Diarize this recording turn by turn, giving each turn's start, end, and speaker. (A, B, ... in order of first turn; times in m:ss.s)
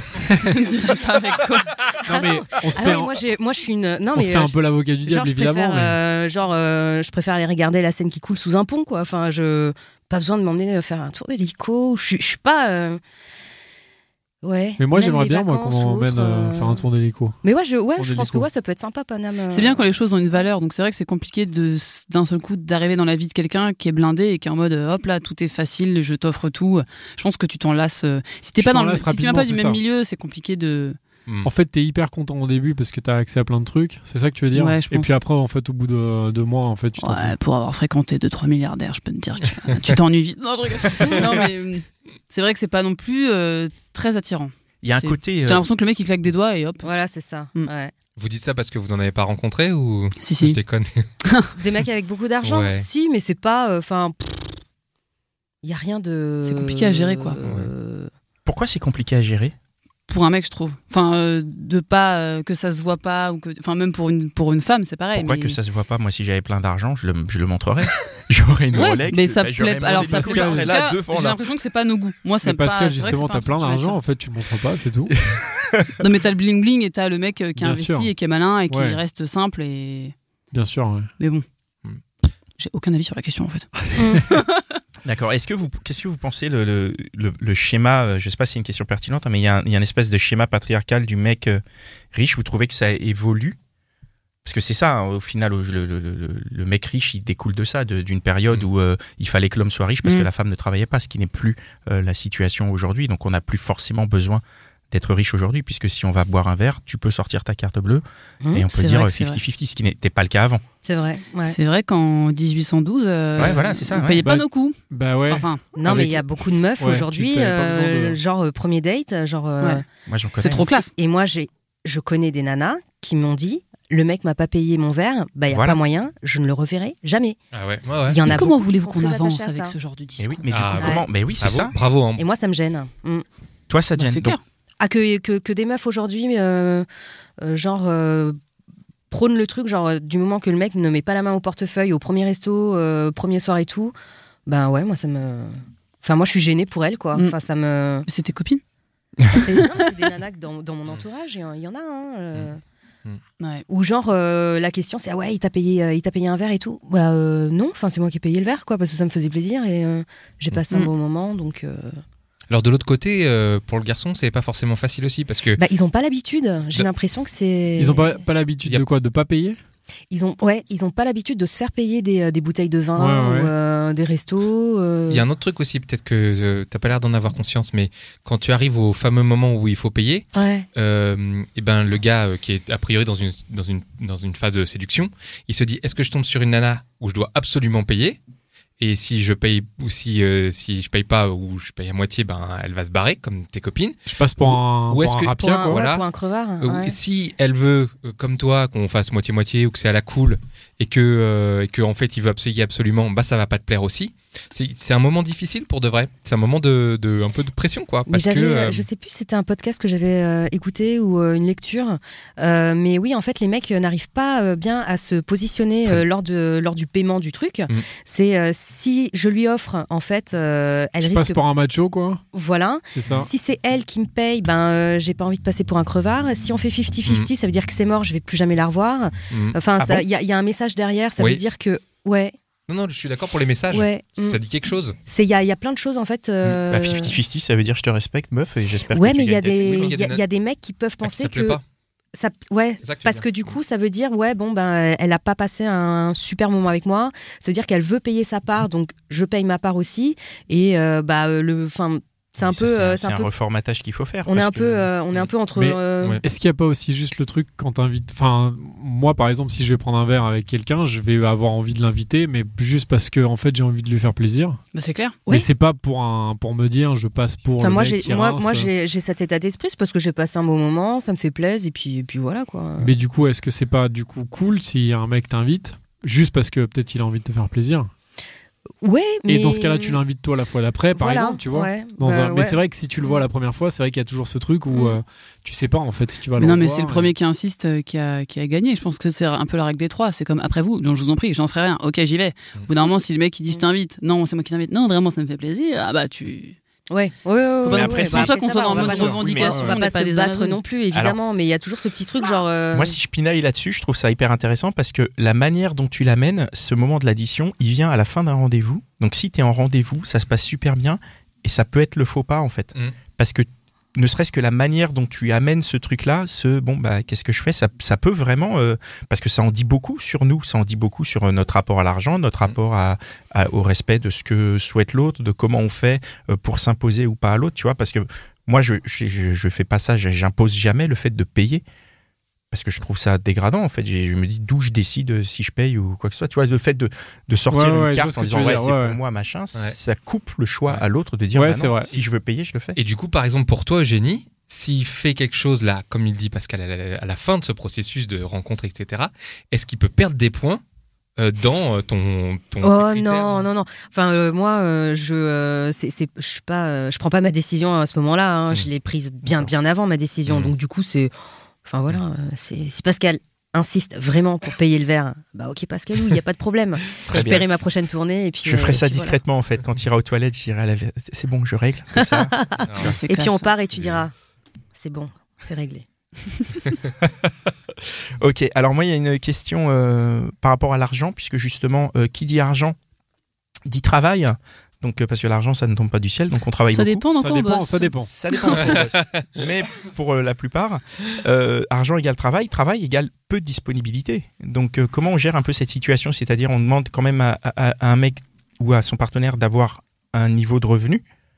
0:00.3-0:01.8 A
0:02.0-0:03.1 B
0:02.0-0:13.0 C
0:04.1-0:06.0 B
0:14.4-0:16.8 C
0:14.8-0:17.4 B
0:17.4-0:19.8 C
0:18.0-0:18.5 B
0:19.5-0:31.0 A
0:28.6-0:29.8 B
0:31.2-0:31.5 D
0:31.4-0:37.3 B
0:34.5-0:35.1 A
0:37.0-0:46.9 A
0:41.1-0:41.4 C
0:44.8-0:45.6 E
0:46.8-0:47.9 C
0:48.2-0:51.1 D
0:50.2-0:50.6 A
0:51.2-0:51.5 A
0:51.6-0:54.6 C
0:52.4-0:52.8 D
0:55.6-0:58.1 C
0:56.4-0:57.4 A
0:57.4-0:57.7 D
0:58.4-0:59.5 E
1:00.1-1:05.6 A
1:05.1-1:11.4 E
1:08.7-1:14.0 A
1:09.9-1:10.7 B
1:12.4-1:15.1 B
1:16.0-1:20.1 A
1:17.6-1:18.1 B
1:18.7-1:19.0 B
1:20.5-1:21.1 B
1:21.2-1:21.4 A
1:22.6-1:24.8 A
1:24.0-1:24.2 C
1:25.0-1:31.6 E
1:32.1-1:33.6 E
1:34.4-1:50.6 E
1:48.4-1:48.7 C
1:48.7-1:49.4 A
1:50.8-1:51.6 C
1:51.4-1:54.8 A
1:53.4-1:54.2 E
1:54.2-1:56.2 B
1:55.3-1:55.6 A
1:55.7-1:59.8 C
1:56.8-1:58.2 B
2:00.1-2:00.6 E
2:00.4-2:00.9 A
2:00.4-2:07.4 C
2:05.5-2:05.8 E
2:07.5-2:08.2 D
2:08.0-2:09.7 C
2:08.2-2:10.5 A
2:10.2-2:11.7 E
2:10.5-2:12.2 D
2:10.8-2:11.0 C
2:12.2-2:13.2 C
2:13.7-2:14.4 E
2:14.0-2:14.4 A
2:14.8-2:16.8 C
2:17.4-2:18.4 C
2:19.1-2:23.9 C
2:24.4-2:28.0 C
2:28.1-2:28.6 A
2:29.3-2:32.6 C
2:29.5-2:29.8 A
2:33.7-2:42.0 C
2:42.5-2:45.6 D
2:45.6-2:48.2 C
2:47.8-2:49.6 B
2:50.1-2:55.2 C
2:53.0-2:53.5 B
2:55.1-3:08.2 D
3:00.3-3:00.6 C
3:08.8-3:16.0 D
3:14.0-3:15.8 B
3:15.4-3:17.0 C
3:16.6-3:28.9 D
3:28.1-3:41.4 C
3:41.0-3:42.2 B
3:42.3-3:52.3 C
3:42.9-3:43.3 B
3:49.3-3:49.6 D
3:49.8-3:50.0 E
3:52.7-3:55.0 D
3:53.7-3:54.4 C
3:55.0-3:57.1 C
3:56.7-3:59.9 E
3:58.9-4:01.6 C
3:59.5-4:00.2 D
4:01.0-4:01.6 D
4:02.1-4:13.3 C
4:02.8-4:03.6 D
4:12.4-4:14.9 E
4:14.2-4:16.2 C
4:15.5-4:24.6 B
4:24.7-4:25.2 A
4:25.3-4:28.7 B
4:27.6-4:32.9 C
4:32.8-4:37.9 B
4:38.8-4:40.0 C
4:39.3-4:47.1 B
4:40.9-4:43.2 C
4:44.7-4:45.0 C
4:46.4-4:56.6 A
4:56.9-5:02.9 C
4:57.6-5:00.6 A
4:57.7-4:59.7 E
4:59.4-4:59.8 B
5:00.9-5:01.2 E
5:02.7-5:31.6 E
5:32.5-5:42.8 E
5:37.5-5:39.0 B
5:41.3-5:41.9 B
5:42.7-5:50.6 D
5:51.2-5:53.5 D
5:52.6-6:01.1 C
6:00.2-6:00.5 D
6:01.6-6:09.2 C
6:07.0-6:07.4 D
6:07.1-6:07.4 E
6:08.4-6:12.9 E
6:12.0-6:14.1 C
6:12.6-6:12.9 D
6:12.8-6:13.5 A
6:13.7-6:14.0 D
6:14.7-6:15.8 C
6:17.0-6:17.3 E
6:17.9-6:22.8 E
6:23.6-6:27.0 E
6:26.7-6:28.0 A
6:27.1-6:28.1 B
6:28.0-6:41.0 E
6:28.6-6:29.2 D